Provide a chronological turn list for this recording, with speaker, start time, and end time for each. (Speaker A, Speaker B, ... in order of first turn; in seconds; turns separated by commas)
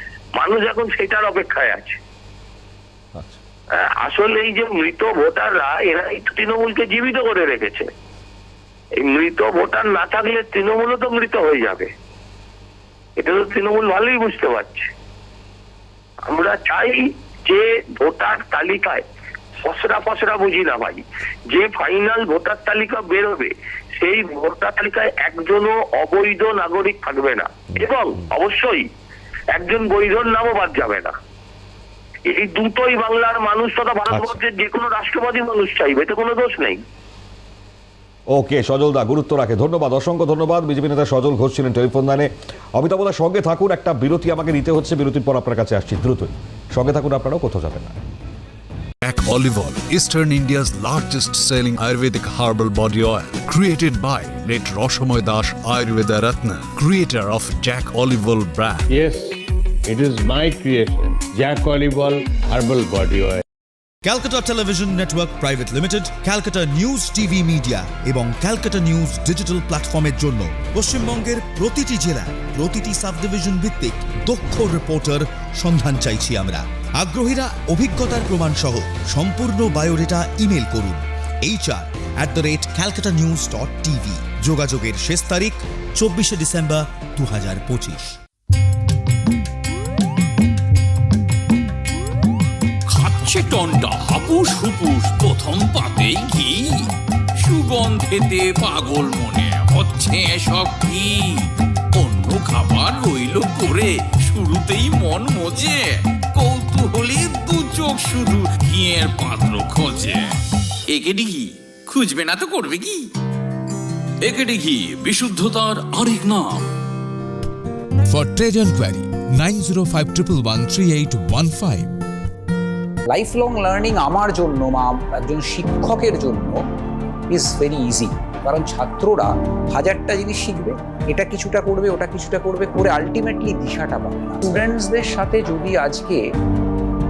Speaker A: 0.4-2.0, Speaker B: 3.1-3.4, Speaker A: 3.8-7.9, Speaker A: 9.0-11.9, Speaker A: 13.2-14.9, Speaker A: 16.3-19.0, Speaker A: 19.6-28.9, Speaker B: 27.7-28.2, Speaker A: 29.5-31.1, Speaker A: 32.3-36.8, Speaker B: 38.3-48.0, Speaker C: 49.0-58.9, Speaker D: 58.9-63.4, Speaker E: 64.0-88.2, Speaker F: 92.9-96.9, Speaker F: 97.4-110.3, Speaker F: 110.9-113.1, Speaker F: 114.2-116.7, Speaker F: 118.1-121.9, Speaker G: 123.1-126.6, Speaker G: 127.3-136.3